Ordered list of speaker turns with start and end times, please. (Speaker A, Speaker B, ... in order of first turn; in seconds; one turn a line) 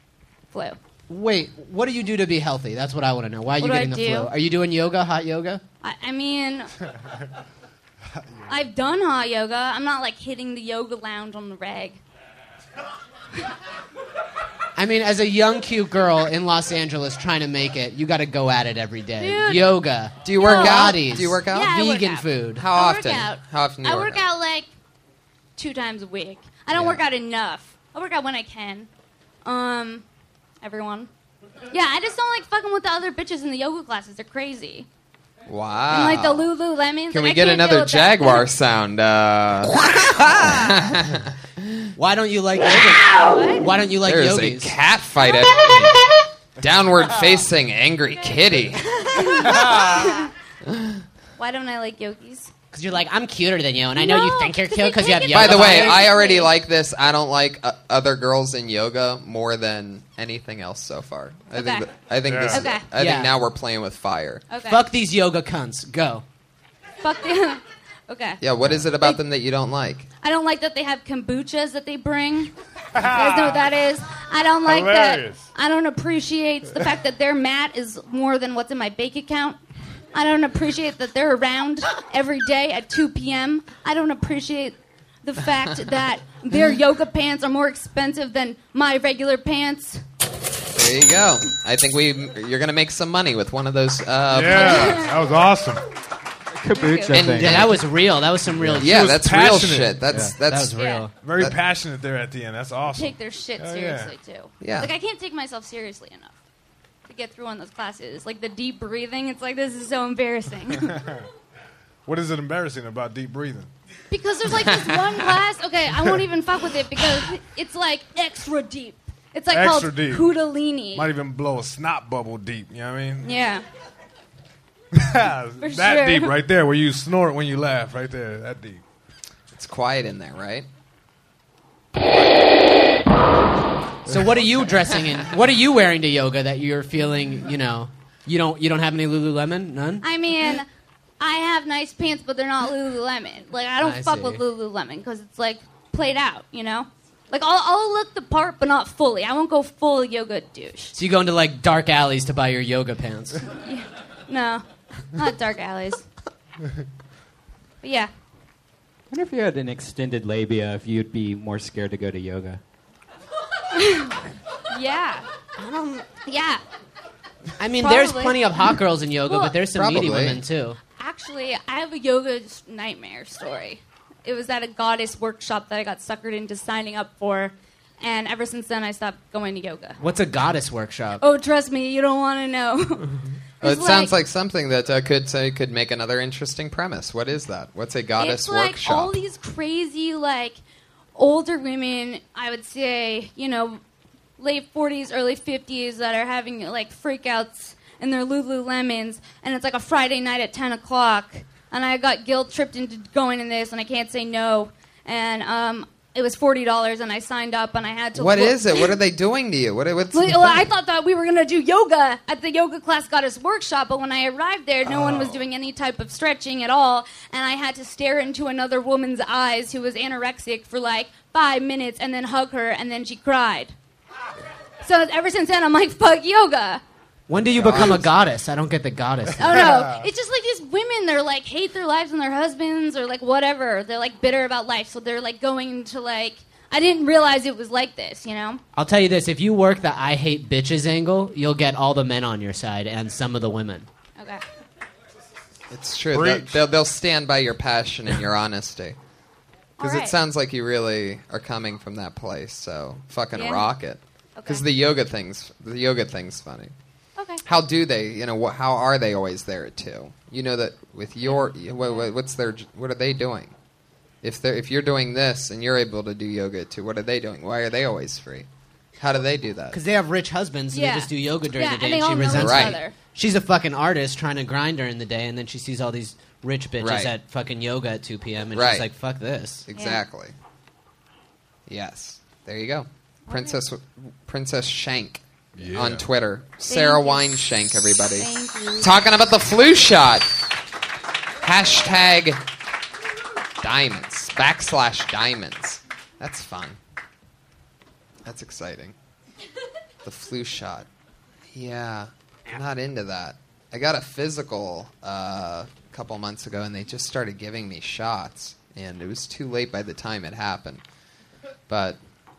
Speaker A: 0.5-0.8
Speaker B: 1.1-5.6
Speaker A: 3.6-4.3
Speaker A: 5.8-6.7
Speaker A: 8.5-12.0
Speaker B: 14.8-22.7
Speaker A: 19.2-19.8
Speaker C: 20.2-21.8
Speaker A: 20.3-24.7
Speaker C: 22.6-24.2
Speaker A: 25.6-28.9
Speaker C: 26.7-27.0
Speaker A: 29.4-30.0
Speaker A: 30.6-31.1
Speaker A: 31.7-34.9
Speaker C: 35.5-36.5
Speaker A: 35.9-38.5
Speaker C: 37.1-41.9
Speaker B: 42.0-44.7
Speaker A: 43.1-43.8
Speaker C: 44.0-46.0
Speaker A: 45.2-45.8
Speaker C: 46.6-49.6
Speaker A: 49.1-50.3
Speaker C: 50.7-51.0
Speaker A: 51.4-52.5
Speaker B: 52.7-56.1
Speaker A: 54.0-56.5
Speaker C: 55.3-64.5
Speaker A: 61.5-61.9
Speaker D: 62.2-62.6
Speaker A: 62.5-62.9
Speaker B: 62.9-63.3
Speaker A: 64.5-64.8
Speaker B: 64.7-66.2
Speaker A: 67.0-68.4
Speaker C: 68.4-70.1
Speaker A: 70.2-79.6
Speaker D: 73.0-73.6
Speaker D: 74.7-75.5
Speaker A: 80.1-90.0
Speaker C: 90.7-95.0
Speaker D: 94.3-95.8
Speaker A: 94.5-95.1
Speaker E: 96.6-97.8
Speaker A: 96.7-97.4
Speaker C: 97.1-97.8
Speaker B: 97.4-98.9
Speaker D: 98.8-100.1
Speaker C: 98.8-100.8
Speaker E: 100.1-100.3
Speaker B: 100.4-101.2
Speaker A: 100.8-101.1
Speaker D: 101.2-104.1
Speaker A: 102.9-106.3
Speaker C: 104.6-104.9
Speaker A: 107.1-110.9
Speaker D: 110.8-111.2
Speaker D: 112.1-113.7
Speaker A: 114.1-121.1
Speaker D: 119.5-120.3
Speaker D: 120.9-123.3
Speaker A: 123.2-123.6
Speaker D: 124.9-128.8
Speaker A: 125.6-126.3
Speaker C: 129.5-130.7
Speaker C: 132.0-132.5
Speaker B: 134.1-140.1
Speaker A: 140.0-140.7
Speaker A: 141.2-151.0
Speaker B: 143.8-144.4
Speaker B: 151.0-153.4
Speaker A: 153.5-156.0
Speaker A: 157.8-158.1
Speaker E: 159.1-162.6
Speaker A: 163.7-164.2
Speaker A: 164.7-165.3
Speaker B: 165.6-166.1
Speaker A: 166.2-166.6
Speaker B: 167.6-170.8
Speaker A: 167.8-168.7
Speaker A: 169.3-169.6
Speaker C: 169.7-170.4
Speaker A: 170.8-180.0
Speaker B: 180.0-181.2
Speaker A: 181.2-184.1
Speaker C: 183.6-189.2
Speaker A: 188.2-190.6
Speaker A: 191.2-193.8
Speaker A: 194.4-208.9
Speaker C: 208.2-210.7
Speaker A: 210.1-223.7
Speaker A: 224.8-226.8
Speaker B: 227.3-229.7
Speaker D: 227.7-228.0
Speaker A: 229.4-238.6
Speaker B: 238.8-243.9
Speaker C: 245.7-249.0
Speaker A: 249.8-250.2
Speaker C: 249.8-256.7
Speaker A: 253.3-253.7
Speaker A: 254.4-254.7
Speaker A: 257.2-257.4
Speaker C: 257.4-263.5
Speaker A: 261.3-262.1
Speaker C: 264.2-268.5
Speaker C: 269.0-269.8
Speaker B: 269.7-279.7
Speaker A: 270.7-273.0
Speaker C: 272.3-272.8
Speaker C: 276.8-277.1
Speaker C: 278.5-278.9
Speaker C: 279.7-280.4
Speaker A: 279.7-280.0
Speaker C: 281.7-290.3
Speaker A: 283.3-283.6
Speaker D: 285.6-286.0
Speaker A: 286.7-287.5
Speaker A: 288.1-288.9
Speaker C: 291.4-292.4
Speaker C: 293.6-296.8
Speaker C: 298.2-298.9
Speaker C: 300.0-300.9
Speaker C: 301.5-310.8
Speaker C: 311.7-312.0